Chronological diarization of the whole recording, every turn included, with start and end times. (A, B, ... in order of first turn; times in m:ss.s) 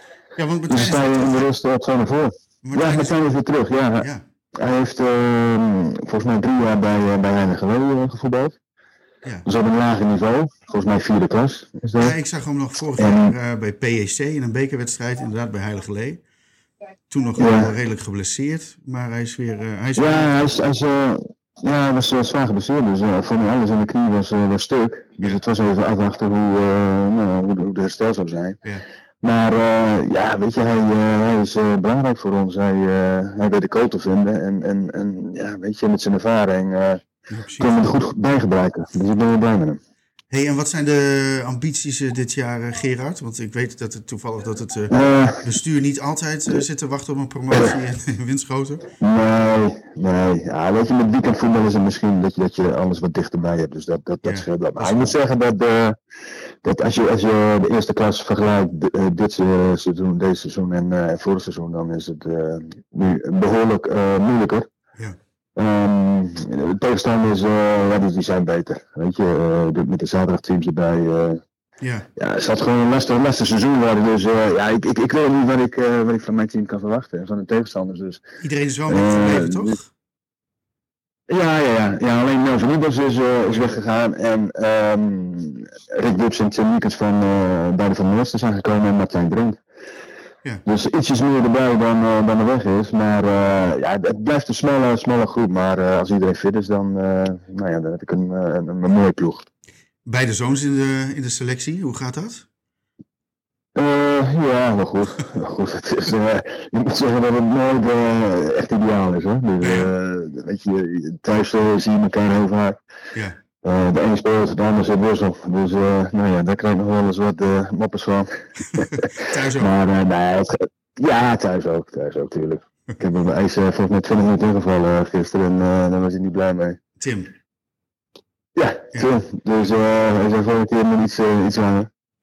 0:00.4-0:01.4 A
0:00.7-0:08.6 B
0:02.6-0:03.2 A
0:09.4-0:12.1 B
0:12.0-0:16.2 A
0:13.0-0:13.3 B
0:17.1-0:20.4 A
0:17.4-0:17.7 B
0:20.0-0:28.6 B
0:29.2-0:37.0 B
0:37.3-0:37.9 A
0:37.6-0:39.8 B
0:40.3-0:48.8 A
0:44.9-0:45.5 B
0:49.0-0:56.0 B
0:54.2-0:55.2 A
0:56.6-1:04.7 B
1:05.6-1:11.4 B
1:11.8-1:12.1 A
1:12.2-1:18.2 B
1:18.4-1:19.9 A
1:18.9-1:19.8 B
1:21.3-1:29.6 B
1:30.6-1:39.4 B
1:40.1-1:42.4 A
1:43.8-1:52.8 B
1:49.6-1:49.9 A
1:53.1-1:53.4 A
1:53.6-1:59.0 B
1:58.8-1:59.7 A
1:59.6-2:06.8 B
2:07.0-2:07.3 A
2:08.6-2:11.9 B